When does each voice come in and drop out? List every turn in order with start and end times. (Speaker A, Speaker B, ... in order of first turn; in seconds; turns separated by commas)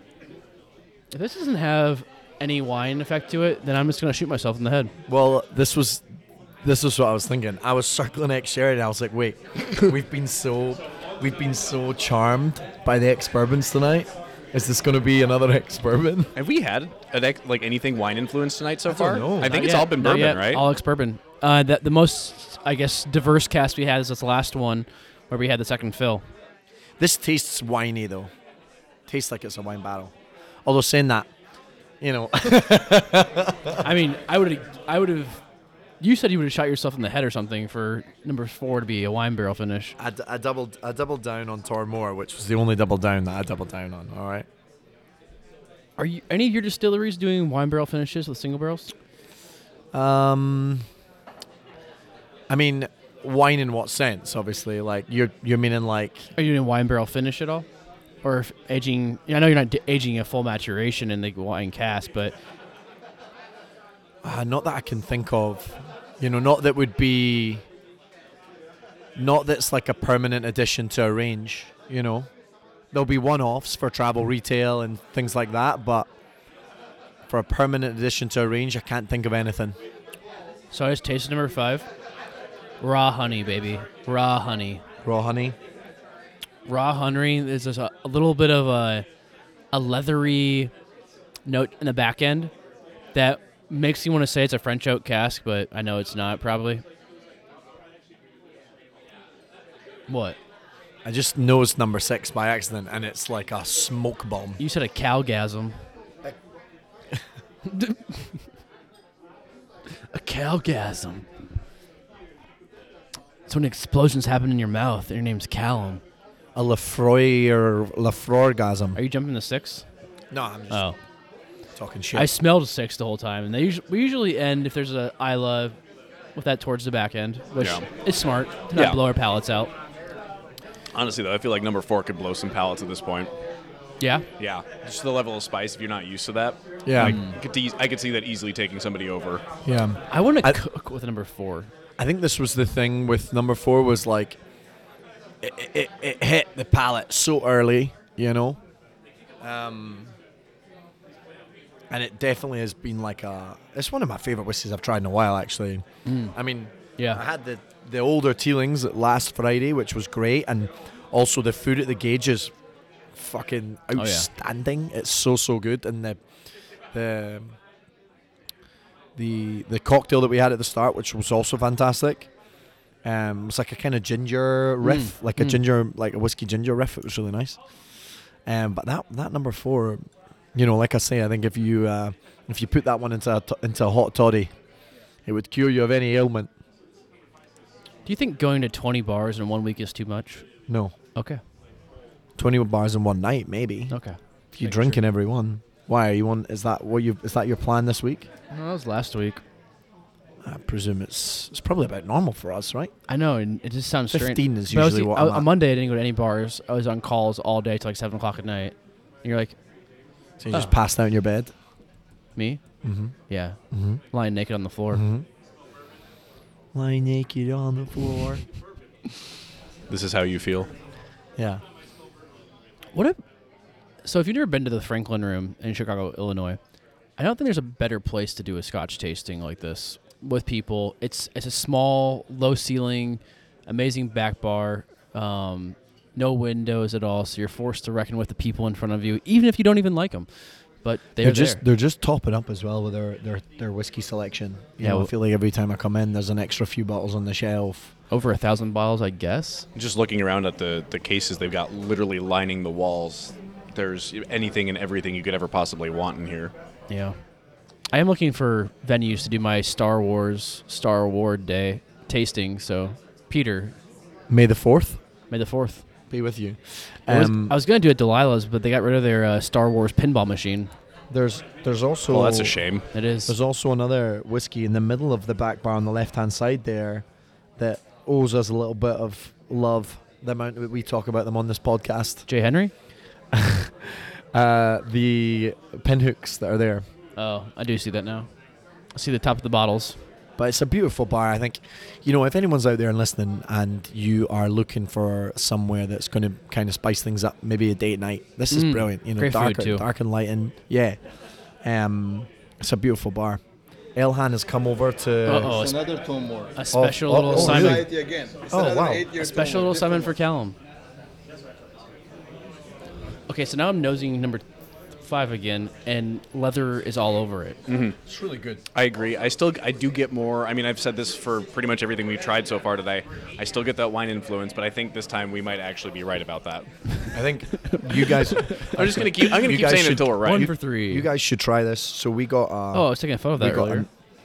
Speaker A: 1.1-4.9, Speaker B: 5.1-6.0, Speaker B: 6.6-16.3, Speaker C: 16.3-20.6, Speaker B: 18.9-19.6, Speaker A: 19.4-26.2, Speaker B: 27.0-28.3, Speaker B: 29.1-30.1, Speaker B: 30.6-31.3, Speaker B: 32.0-33.8, Speaker A: 33.8-35.4, Speaker A: 36.0-40.0, Speaker B: 40.0-44.5, Speaker A: 46.0-48.9, Speaker B: 49.9-50.9, Speaker B: 52.5-56.3, Speaker A: 56.3-57.7, Speaker A: 58.2-62.3, Speaker B: 64.2-67.6, Speaker B: 69.2-72.3, Speaker B: 72.9-76.1, Speaker B: 77.3-79.8, Speaker A: 80.7-81.9, Speaker A: 82.8-84.8, Speaker B: 85.0-85.5, Speaker A: 86.7-89.0, Speaker A: 89.7-90.7, Speaker A: 91.5-92.5, Speaker A: 93.1-96.8, Speaker A: 100.1-100.4, Speaker B: 101.0-104.6, Speaker A: 104.6-105.8, Speaker A: 107.7-108.3, Speaker A: 110.1-111.2, Speaker A: 113.5-116.0, Speaker B: 116.5-119.0, Speaker A: 118.9-119.8, Speaker B: 120.3-120.8, Speaker A: 120.7-121.0, Speaker B: 121.7-122.3, Speaker A: 122.1-125.8, Speaker A: 126.3-129.7, Speaker C: 127.6-127.8, Speaker C: 128.7-129.0, Speaker C: 130.9-133.3, Speaker A: 134.0-134.2, Speaker C: 134.4-139.4, Speaker B: 136.8-137.2, Speaker A: 137.0-137.3, Speaker B: 139.6-140.6, Speaker A: 140.1-141.7, Speaker B: 142.0-144.4, Speaker B: 145.4-148.6, Speaker B: 149.4-150.2, Speaker B: 151.9-162.5, Speaker A: 156.1-156.3, Speaker B: 163.1-166.2, Speaker A: 163.9-164.3, Speaker B: 166.9-167.6, Speaker B: 169.2-172.3, Speaker B: 173.0-177.6, Speaker A: 174.8-175.6, Speaker B: 178.4-184.5, Speaker B: 185.2-186.5, Speaker A: 188.0-190.4, Speaker B: 190.7-190.9, Speaker A: 191.2-191.4, Speaker B: 192.4-194.0, Speaker A: 193.9-195.0, Speaker B: 194.5-198.3, Speaker A: 198.5-199.4, Speaker B: 200.4-202.9, Speaker A: 203.1-209.6, Speaker B: 204.1-205.5, Speaker B: 210.4-211.5, Speaker A: 210.5-210.8, Speaker A: 212.3-212.6, Speaker B: 212.8-213.1, Speaker A: 213.3-213.6, Speaker B: 213.7-214.0, Speaker A: 214.1-215.0, Speaker B: 214.9-215.2, Speaker B: 216.7-218.4, Speaker C: 219.9-220.7, Speaker B: 221.4-221.6, Speaker A: 222.9-223.2, Speaker A: 224.0-226.6, Speaker A: 227.2-240.3, Speaker A: 240.8-241.6, Speaker B: 241.2-247.9, Speaker A: 244.8-245.1, Speaker A: 248.1-249.7, Speaker C: 249.7-256.5, Speaker A: 256.9-257.2, Speaker A: 257.9-263.8, Speaker B: 264.3-265.0, Speaker A: 265.3-265.8, Speaker B: 266.1-267.6, Speaker A: 267.1-270.7, Speaker B: 271.1-272.6, Speaker C: 272.1-272.9, Speaker A: 272.9-273.4, Speaker B: 273.2-277.0, Speaker B: 277.6-282.3, Speaker A: 282.3-282.7, Speaker B: 283.3-286.9, Speaker A: 287.1-288.3, Speaker A: 288.9-290.0, Speaker B: 290.4-301.0, Speaker A: 298.5-299.8, Speaker B: 301.6-303.4, Speaker B: 303.9-305.6, Speaker A: 305.2-305.9, Speaker D: 305.4-310.1, Speaker A: 306.6-307.9, Speaker B: 306.7-307.9, Speaker B: 308.5-309.1, Speaker A: 309.1-310.6, Speaker A: 313.3-314.4, Speaker A: 315.0-317.6, Speaker C: 317.7-318.0, Speaker B: 318.0-318.6, Speaker C: 318.7-326.7, Speaker B: 327.1-333.9, Speaker A: 327.5-329.3, Speaker C: 328.6-330.5, Speaker A: 330.2-331.1, Speaker A: 332.7-333.9